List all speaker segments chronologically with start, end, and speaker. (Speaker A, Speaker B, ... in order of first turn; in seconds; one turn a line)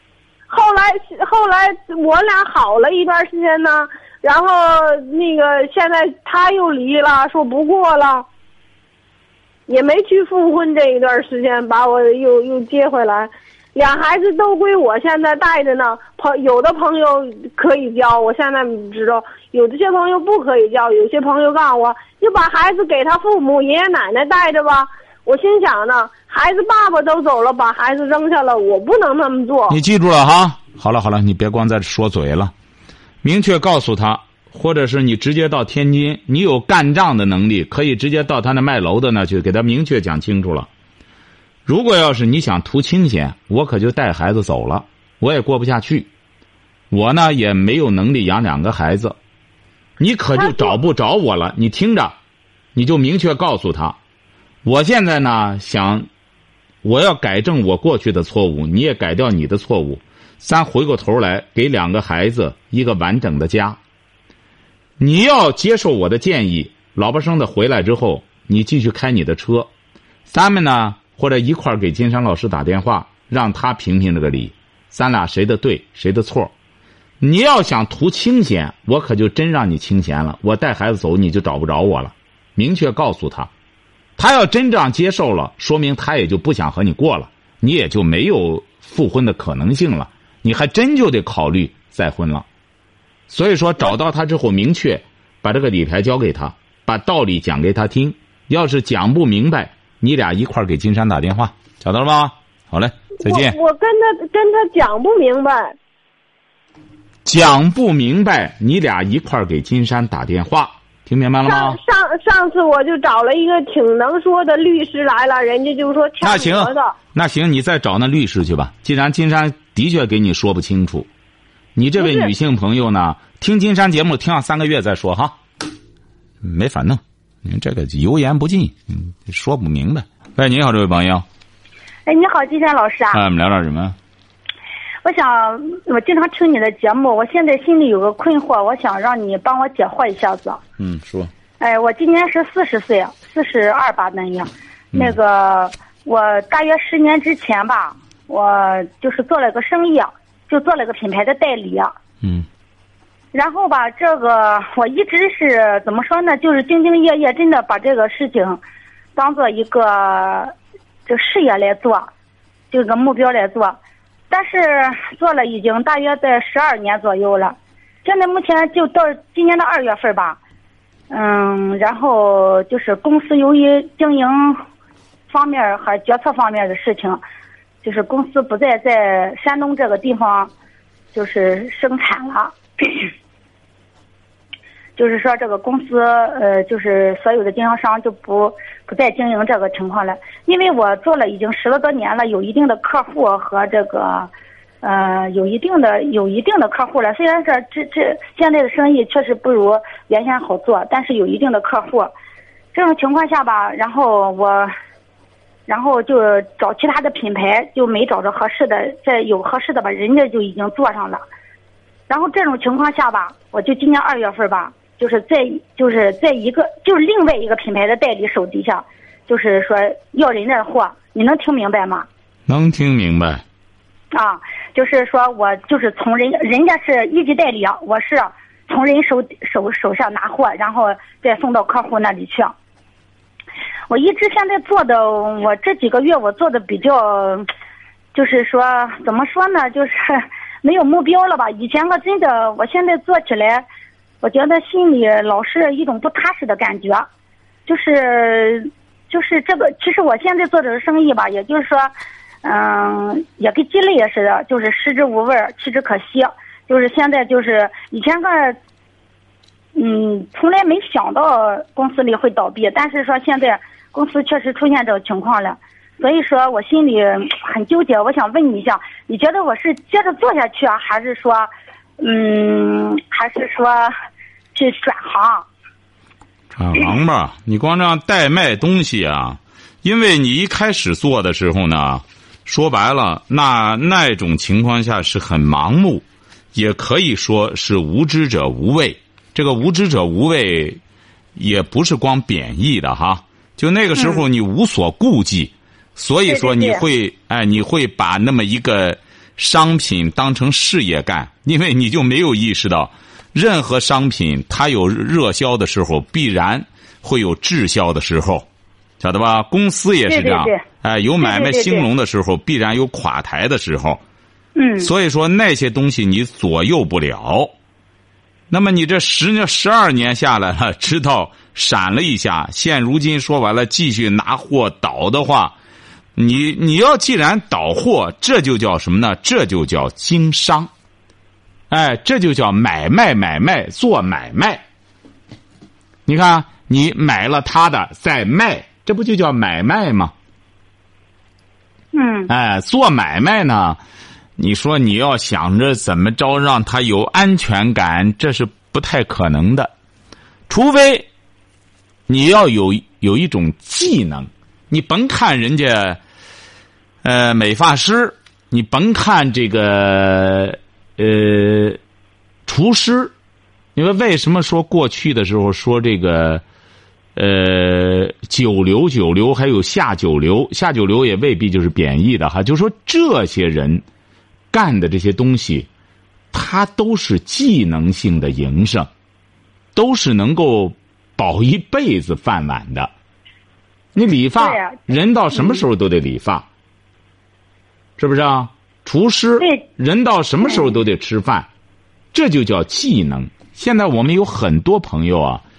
Speaker A: 0.5-8.2
Speaker A: 9.7-29.8
Speaker B: 29.7-32.5
Speaker B: 33.2-40.7
Speaker B: 41.6-46.1
Speaker B: 46.9-49.1
Speaker B: 50.0-52.1
Speaker A: 50.4-50.7
Speaker B: 52.7-54.0
Speaker B: 54.6-56.1
Speaker B: 56.8-63.8
Speaker B: 65.0-69.7
Speaker B: 70.3-76.5
Speaker B: 77.2-83.5
Speaker B: 84.2-92.5
Speaker B: 93.3-103.6
Speaker A: 103.2-105.8
Speaker B: 107.2-111.8
Speaker A: 111.4-116.9
Speaker B: 116.2-121.1
Speaker B: 121.8-125.4
Speaker A: 122.0-122.3
Speaker B: 126.4-131.2
Speaker C: 132.1-133.2
Speaker B: 133.1-133.9
Speaker C: 135.0-140.6
Speaker B: 140.8-141.3
Speaker C: 141.6-151.9
Speaker B: 144.9-145.2
Speaker B: 152.2-152.5
Speaker C: 153.3-158.6
Speaker C: 159.2-160.5
Speaker C: 161.1-162.1
Speaker C: 162.7-163.8
Speaker C: 164.3-170.4
Speaker C: 171.1-174.6
Speaker C: 175.3-177.2
Speaker C: 177.8-180.5
Speaker C: 181.1-183.1
Speaker C: 185.0-194.3
Speaker C: 194.8-202.1
Speaker C: 202.7-204.7
Speaker C: 205.7-211.2
Speaker C: 212.1-222.1
Speaker B: 222.5-223.4
Speaker C: 224.1-232.5
Speaker C: 233.9-237.4
Speaker C: 238.1-243.7
Speaker C: 244.2-247.1
Speaker C: 247.7-251.9
Speaker C: 252.4-258.6
Speaker C: 259.7-273.9
Speaker C: 274.5-275.4
Speaker B: 276.5-290.8
Speaker B: 291.4-308.4
Speaker C: 294.0-294.2
Speaker B: 309.0-314.0
Speaker C: 310.1-310.6
Speaker C: 311.2-311.8
Speaker C: 314.6-314.9
Speaker B: 314.8-317.5
Speaker B: 318.5-325.6
Speaker B: 326.1-330.7
Speaker B: 331.7-334.6
Speaker B: 336.1-340.1
Speaker C: 341.9-342.3
Speaker B: 342.3-343.8
Speaker B: 344.4-349.7
Speaker B: 350.5-351.1
Speaker B: 352.1-356.0
Speaker B: 357.0-361.8
Speaker B: 362.5-363.1
Speaker B: 363.8-366.4
Speaker B: 367.1-373.8
Speaker B: 374.5-375.7
Speaker B: 376.3-378.9
Speaker B: 379.8-382.9
Speaker B: 383.9-386.4
Speaker C: 384.4-384.8
Speaker C: 385.3-385.6
Speaker B: 388.0-391.5
Speaker B: 392.1-395.4